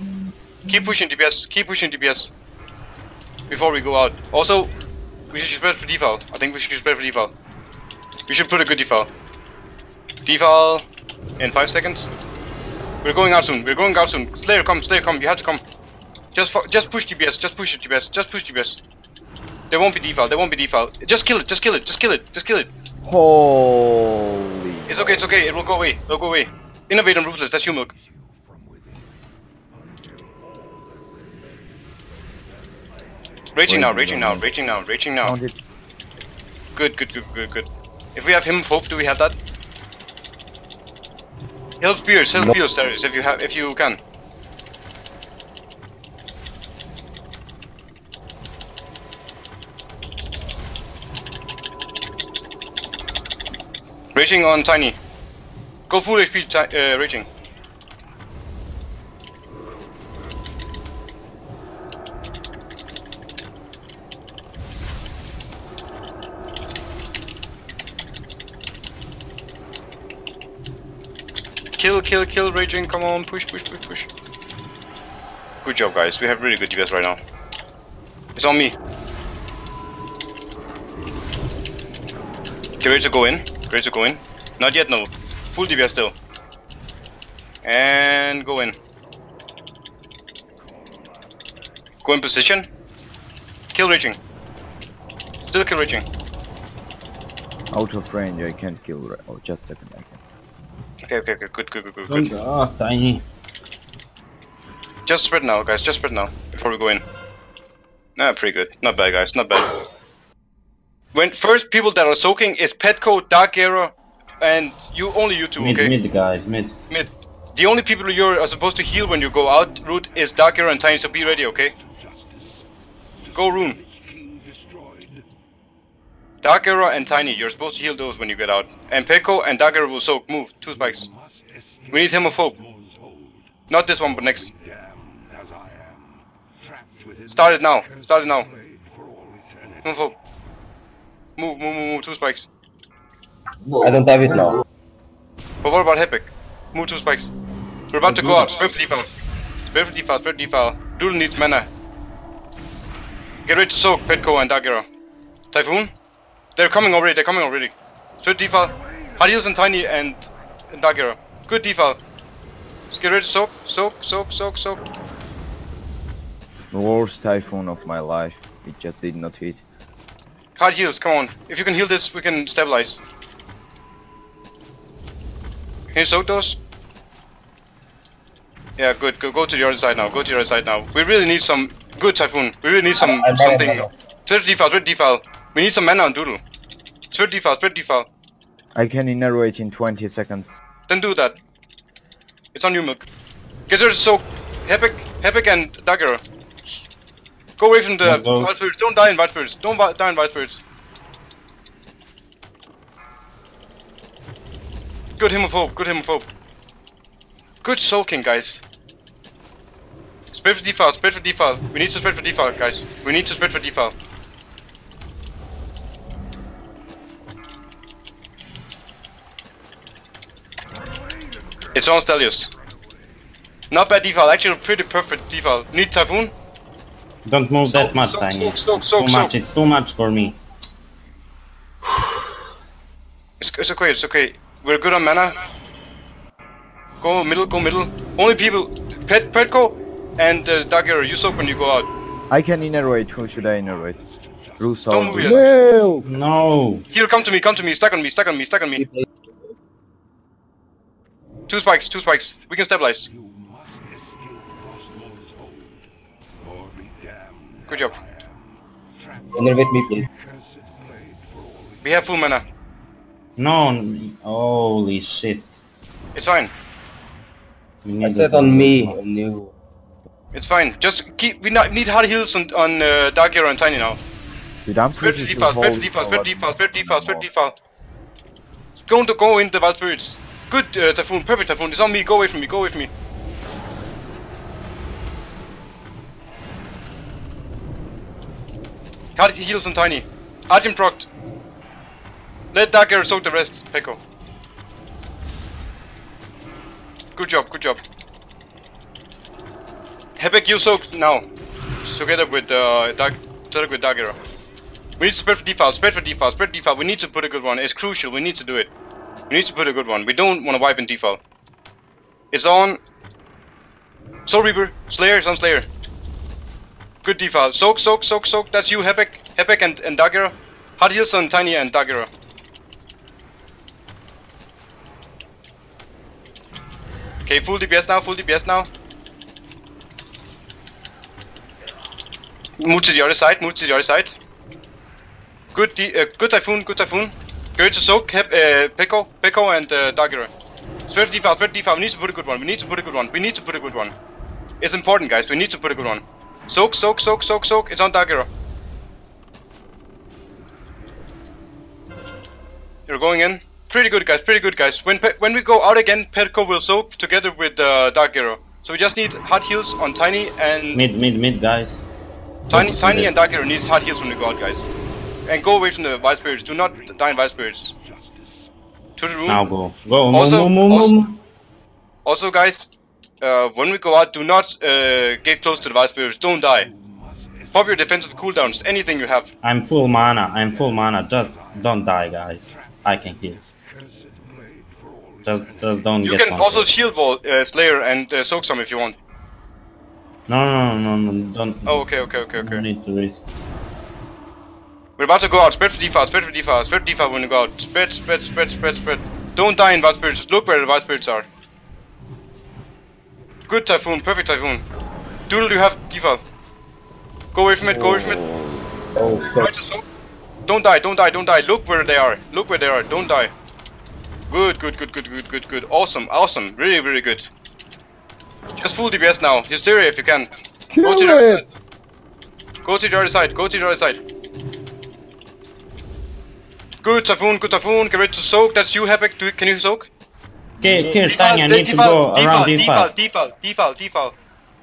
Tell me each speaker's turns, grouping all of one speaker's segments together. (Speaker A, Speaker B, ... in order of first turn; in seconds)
Speaker A: 0.7-2.3, 3.5-4.7, 5.3-7.3, 8.3-9.1, 10.2-10.8, 11.4-12.1, 13.0-15.6, 16.3-18.8, 19.7-22.7, 24.9-27.9, 33.5-35.3, 36.7-39.4, 41.8-44.0, 54.1-55.0, 55.9-57.3, 71.8-74.1, 75.6-77.2, 78.3-78.8, 82.8-86.1, 87.6-88.8, 92.0-92.7, 93.7-94.2, 95.4-96.0, 101.0-102.3, 105.0-107.0, 108.2-109.7, 111.1-115.9, 116.9-121.7, 123.3-123.8, 126.4-131.1, 131.9-132.6, 133.7-134.5, 137.3-138.5, 139.8-140.2, 141.4-142.5, 145.6-147.3, 147.9-149.1, 149.6-151.7, 153.4-154.9, 155.5-155.9, 156.6-162.0, 162.9-164.8, 170.6-173.0, 175.9-176.6, 178.8-186.4, 187.1-188.1, 190.9-191.4, 192.5-193.0, 193.7-196.2, 197.6-200.6, 205.2-206.2, 207.6-208.6, 210.3-213.9, 221.7-222.5, 223.7-226.3, 227.7-229.3, 233.4-235.4, 237.0-241.9, 244.9-245.5, 246.9-248.8, 251.5-253.1, 257.6-258.0, 261.8-262.4, 266.1-266.5, 270.3-274.0, 275.0-277.5, 278.8-282.9, 289.1-291.1, 292.5-294.0, 297.1-297.8, 300.2-301.2, 301.8-304.2, 305.0-308.7, 309.3-311.2, 312.3-312.8, 314.2-315.7, 317.0-322.1, 327.2-328.7, 332.6-334.1, 335.5-340.3, 340.9-343.9, 344.6-348.3, 352.9-360.8, 362.5-364.7, 365.3-367.7, 369.0-369.4, 370.1-370.9, 372.0-376.7, 377.5-379.3, 386.0-389.0, 391.6-392.6, 395.0-401.3, 403.5-404.6, 405.3-406.2, 407.3-408.2, 409.4-409.8, 410.5-413.3, 414.3-417.3, 418.6-420.3, 420.8-421.5, 422.6-424.0, 426.8-429.9, 430.9-434.1
Speaker B: 23.0-25.3, 33.7-34.5, 35.2-35.5, 97.7-100.2, 166.7-169.6, 188.8-190.5, 242.3-244.0, 244.6-246.1, 274.6-277.3, 420.7-421.4
Speaker C: 102.1-103.2, 115.6-116.7, 148.1-148.5, 198.0-198.5, 227.2-230.4, 246.0-246.8, 263.4-265.5, 267.8-269.0, 360.7-361.8, 362.5-363.1, 369.3-371.2, 379.4-383.4, 385.2-386.7, 390.3-391.8, 392.4-393.2, 430.6-432.9
Speaker D: 143.8-144.6, 183.0-183.9, 259.3-260.1, 268.0-269.5, 409.0-409.5